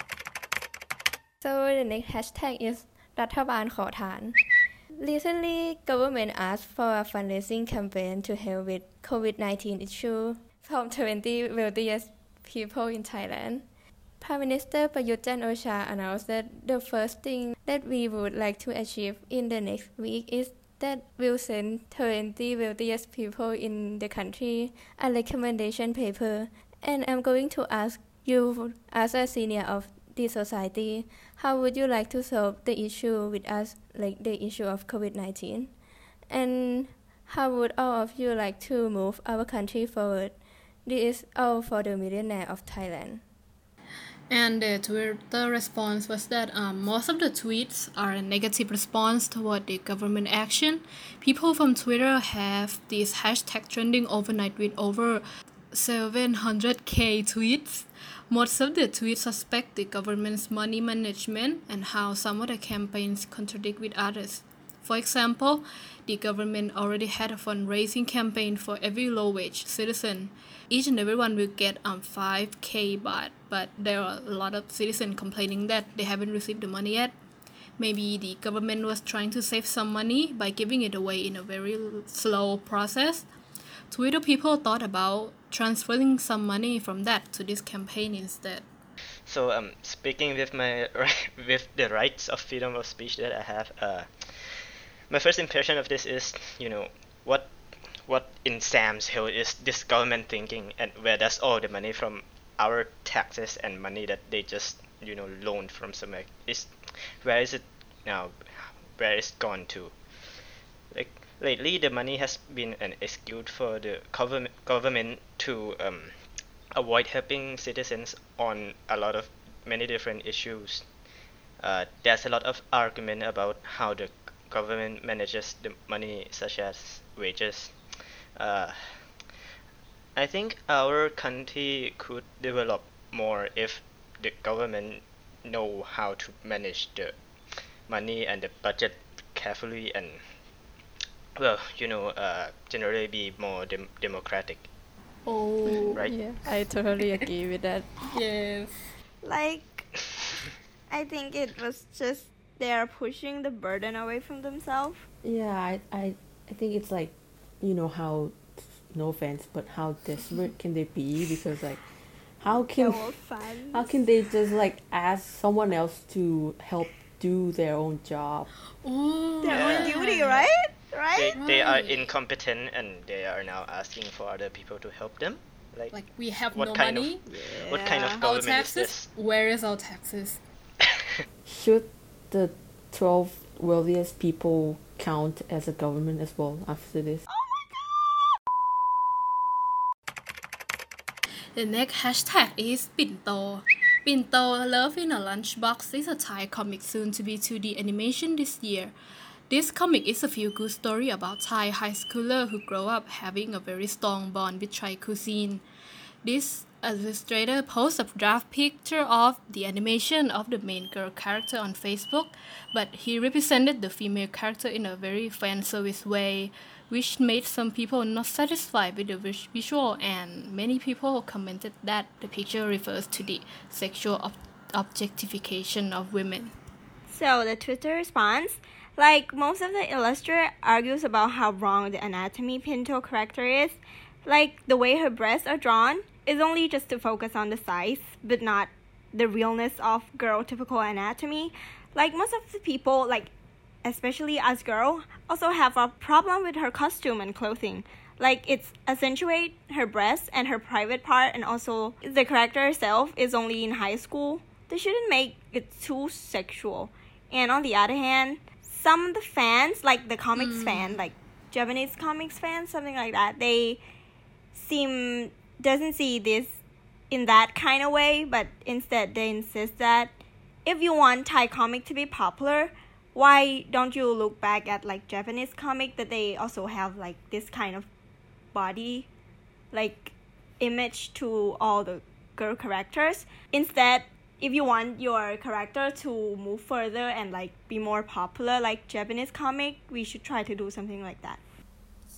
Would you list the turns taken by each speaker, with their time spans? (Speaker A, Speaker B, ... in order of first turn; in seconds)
Speaker A: 1.4-4.4, 4.9-13.7, 14.2-35.8, 36.3-43.2, 146.0-147.9
Speaker B: 44.3-77.2, 77.8-83.3, 83.9-88.7, 145.2-146.1, 148.1-148.8, 168.8-170.5, 171.3-172.1, 175.9-177.2, 178.2-180.4, 191.5-198.9, 199.5-205.6, 206.2-226.5, 260.3-261.0
Speaker C: 89.3-94.6, 95.1-97.5, 98.0-106.7, 107.2-110.0, 110.9-116.1, 116.8-120.9, 121.6-127.8, 128.3-129.0, 130.2-137.2, 137.9-140.2, 141.4-144.7, 169.4-169.9, 171.1-176.0, 176.5-179.1
Speaker D: 149.2-149.9, 150.9-155.1, 162.5-164.0, 169.4-171.4, 177.3-178.2, 187.3-188.0, 227.1-243.3, 243.8-263.8, 264.5-266.6, 267.1-277.9, 278.5-279.1, 279.7-291.4
Speaker E: 155.2-161.9, 162.4-163.1, 163.7-168.5, 181.4-187.2